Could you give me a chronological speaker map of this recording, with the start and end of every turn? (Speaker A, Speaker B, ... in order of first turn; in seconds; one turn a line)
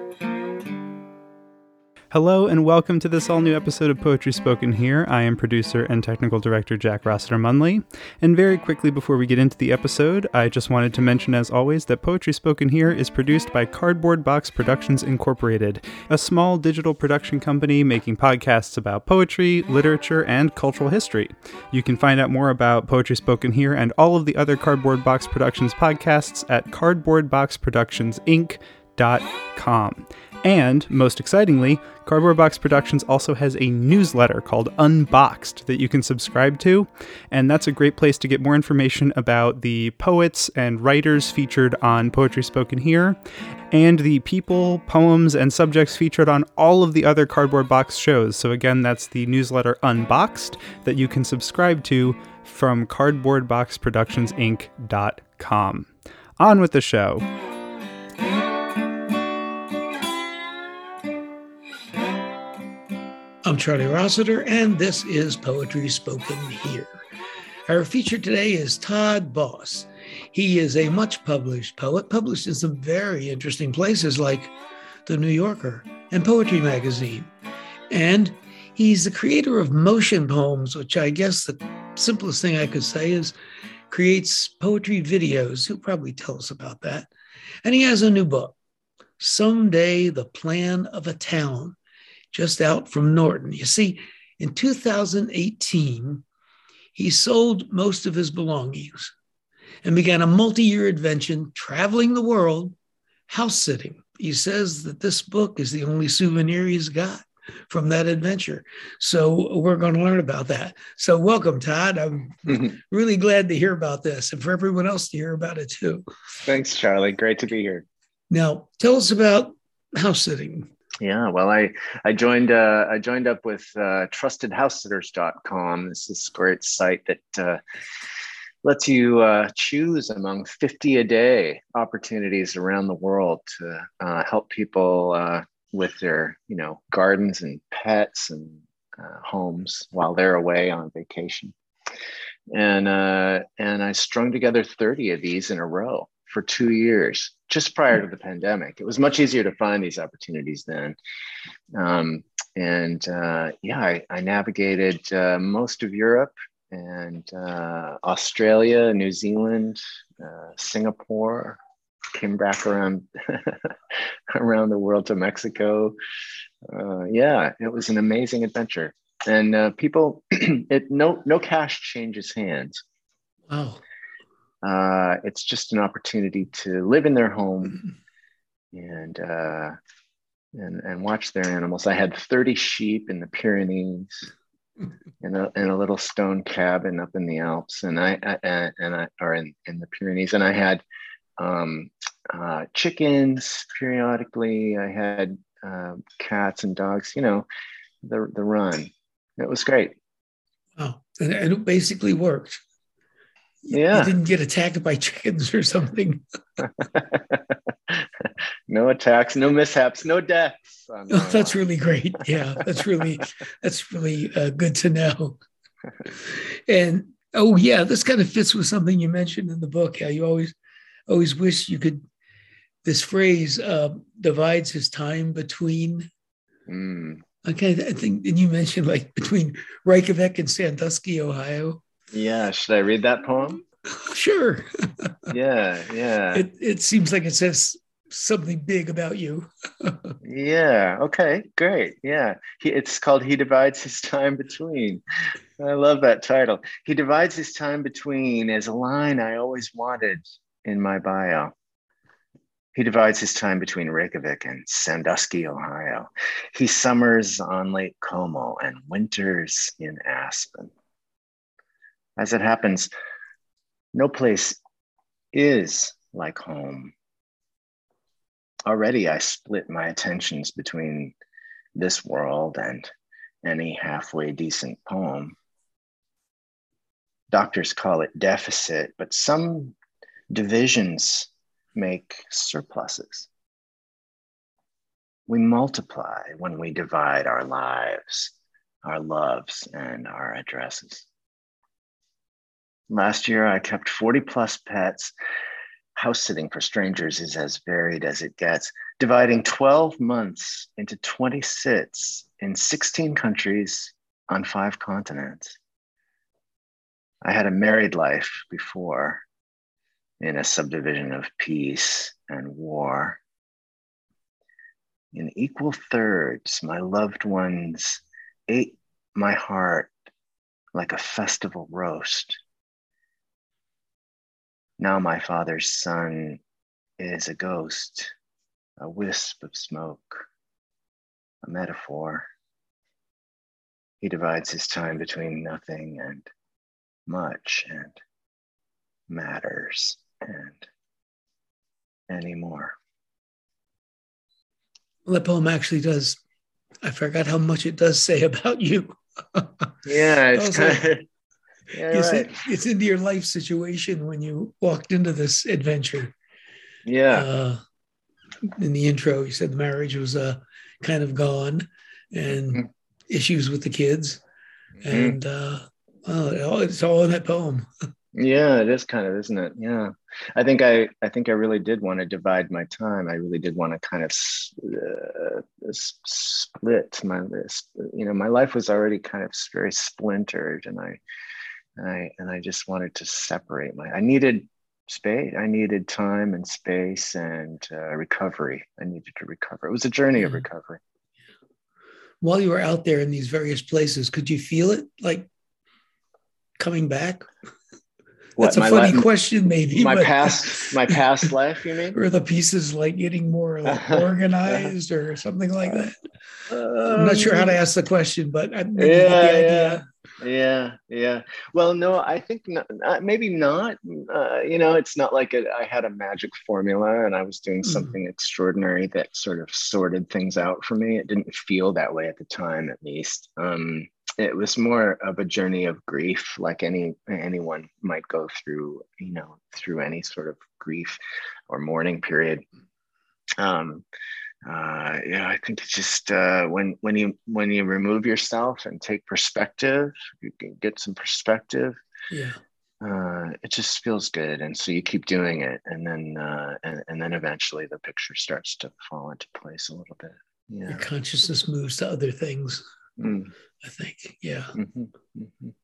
Speaker A: 2.1-43.2
Speaker A: 43.7-57.2
Speaker B: 63.5-67.0
Speaker B: 67.7-74.5
Speaker B: 75.1-77.3
Speaker B: 77.9-83.3
Speaker B: 83.9-87.1
Speaker B: 87.6-88.5
Speaker B: 89.2-91.8
Speaker B: 92.3-96.2
Speaker B: 97.0-99.1
Speaker B: 99.8-102.8
Speaker B: 103.3-116.1
Speaker C: 116.5-117.8
Speaker B: 118.3-120.7
Speaker C: 121.0-127.6
Speaker C: 128.6-141.6
Speaker C: 142.5-151.0
Speaker C: 151.7-161.6
Speaker C: 162.1-166.0
Speaker C: 166.7-172.8
Speaker B: 173.5-173.8
Speaker C: 174.6-177.8
Speaker C: 178.7-179.8
Speaker C: 180.5-184.3
Speaker C: 185.2-190.8
Speaker C: 191.4-197.5
Speaker C: 198.0-200.0
Speaker B: 200.8-202.6
Speaker C: 203.7-204.2
Speaker B: 203.7-206.2
Speaker C: 206.6-211.6
Speaker B: 211.1-215.4
Speaker B: 216.1-220.6
Speaker B: 221.1-222.0
Speaker B: 222.8-226.1
Speaker C: 226.7-227.2
Speaker B: 227.4-231.8
Speaker C: 232.1-233.6
Speaker B: 234.0-235.2
Speaker C: 235.3-236.5
Speaker B: 236.3-240.2
Speaker C: 240.2-245.0
Speaker C: 245.6-251.5
Speaker C: 252.8-260.7
Speaker C: 262.2-262.9
Speaker C: 263.9-264.6
Speaker C: 265.3-266.9
Speaker C: 268.7-271.1
Speaker C: 271.8-272.9
Speaker C: 273.4-275.4
Speaker C: 277.3-279.8
Speaker C: 280.3-283.3
Speaker C: 285.3-288.3
Speaker C: 288.9-291.1
Speaker C: 292.9-295.1
Speaker C: 296.0-305.6
Speaker C: 307.2-309.2
Speaker C: 310.2-313.2
Speaker C: 315.1-319.9
Speaker C: 320.7-322.4
Speaker C: 324.8-326.4
Speaker C: 327.0-328.1
Speaker C: 328.8-330.3
Speaker C: 331.4-332.3
Speaker C: 334.0-336.3
Speaker C: 337.1-338.0
Speaker C: 339.1-340.7
Speaker C: 342.1-342.8
Speaker B: 345.1-346.2
Speaker B: 346.8-349.8
Speaker C: 349.9-351.0
Speaker B: 350.3-350.9
Speaker C: 351.7-352.4
Speaker B: 351.9-356.1
Speaker C: 356.9-357.3
Speaker B: 357.1-357.6
Speaker B: 358.6-364.2
Speaker C: 364.8-365.2
Speaker B: 364.9-367.7
Speaker C: 368.1-381.0
Speaker C: 381.8-390.8
Speaker B: 392.2-395.3
Speaker B: 396.6-397.2
Speaker C: 398.4-399.1
Speaker B: 398.4-400.9
Speaker C: 399.7-402.0
Speaker B: 401.9-406.0
Speaker C: 403.7-404.7
Speaker C: 406.5-407.6
Speaker B: 406.9-409.8
Speaker C: 408.8-432.4
Speaker B: 417.7-417.9
Speaker C: 433.4-433.9
Speaker C: 434.5-441.8
Speaker B: 442.1-442.4
Speaker C: 442.8-450.9
Speaker B: 450.7-452.6
Speaker C: 453.0-453.3
Speaker B: 453.6-454.6
Speaker C: 454.6-455.5